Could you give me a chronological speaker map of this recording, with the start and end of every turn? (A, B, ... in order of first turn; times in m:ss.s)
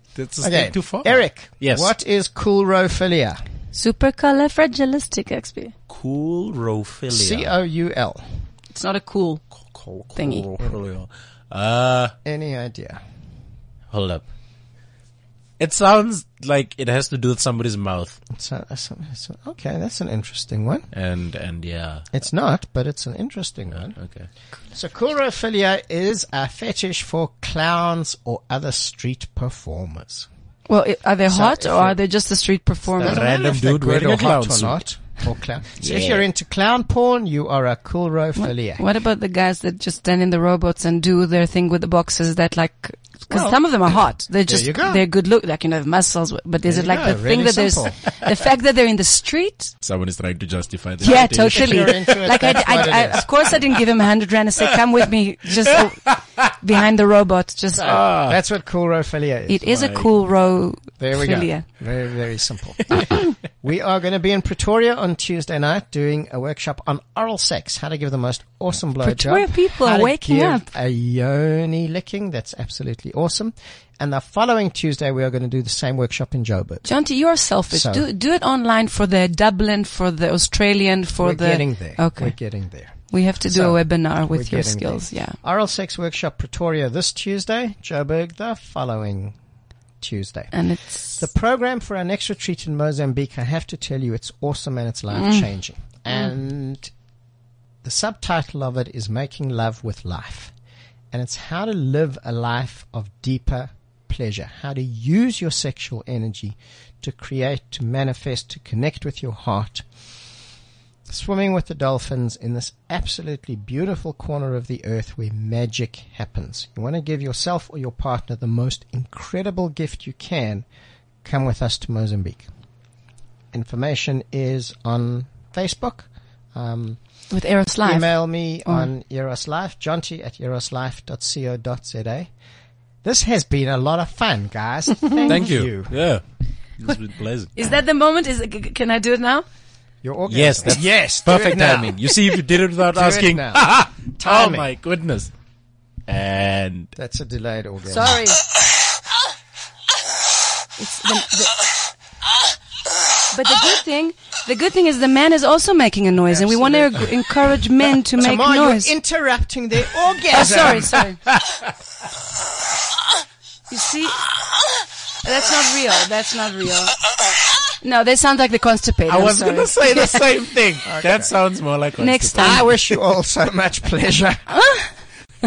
0:00.2-0:01.9 A
0:00.4-0:03.4 B
0:03.7-0:05.7 C
0:05.9-0:07.5 A
0:07.1-0:08.2 B
0:08.7-0:09.4 C
0:09.6-0:12.2 A
0:10.2-0:10.4 C
0:12.2-0:13.0 B
0:13.9-0:14.3 A
0:15.6-0:18.2 A
0:18.3-0:20.9 B
0:20.9-0:22.1 A
0:22.1-0:24.0 B
0:24.0-0:24.3 A
0:24.7-0:30.3 B
0:30.7-0:33.3 C
0:31.3-0:32.0 B
0:32.9-0:38.8 B
0:33.0-0:34.8 A
0:35.8-0:36.2 A
0:38.4-0:49.7 C
0:43.3-0:43.6 B
0:44.5-0:45.0 B
0:46.7-0:48.0 B
0:49.8-0:53.8 A
0:51.0-0:58.0 C
0:51.0-0:53.3 B
0:55.7-0:56.2 A
0:57.8-0:58.4 A
0:57.8-0:59.7 B
0:59.5-1:01.6 C
0:59.7-1:00.1 A
1:01.0-1:16.8 B
1:09.0-1:10.7 C
1:16.8-1:22.4 C
1:17.7-1:18.1 B
1:21.2-1:29.4 B
1:22.9-1:25.4 C
1:30.0-1:30.6 B
1:30.5-1:31.2 C
1:31.1-1:36.9 B
1:35.1-1:35.5 C
1:37.8-1:40.5 B
1:41.1-1:49.9 B
1:51.1-2:00.6 B
2:01.2-2:02.5 B
2:03.5-2:07.0 B
2:07.3-2:08.1 C
2:07.8-2:12.3 B
2:08.6-2:08.9 C
2:13.0-2:16.0 B
2:15.2-2:16.2 A
2:16.8-2:17.5 A
2:17.6-2:19.4 C
2:20.0-2:24.7 B
2:20.3-2:25.3 A
2:26.1-2:26.9 A
2:27.0-2:28.2 B
2:27.9-2:28.4 C
2:30.8-2:31.6 C
2:33.3-2:38.9 C
2:36.6-2:37.0 A
2:38.2-2:41.0 B
2:40.3-2:41.2 C
2:40.8-2:41.6 A
2:43.7-2:44.3 C
2:45.2-2:47.0 C
2:47.8-2:50.1 C
2:49.1-2:52.9 A
2:50.8-2:51.3 B
2:52.0-2:52.6 C
2:52.4-2:54.5 B
2:54.6-2:54.9 C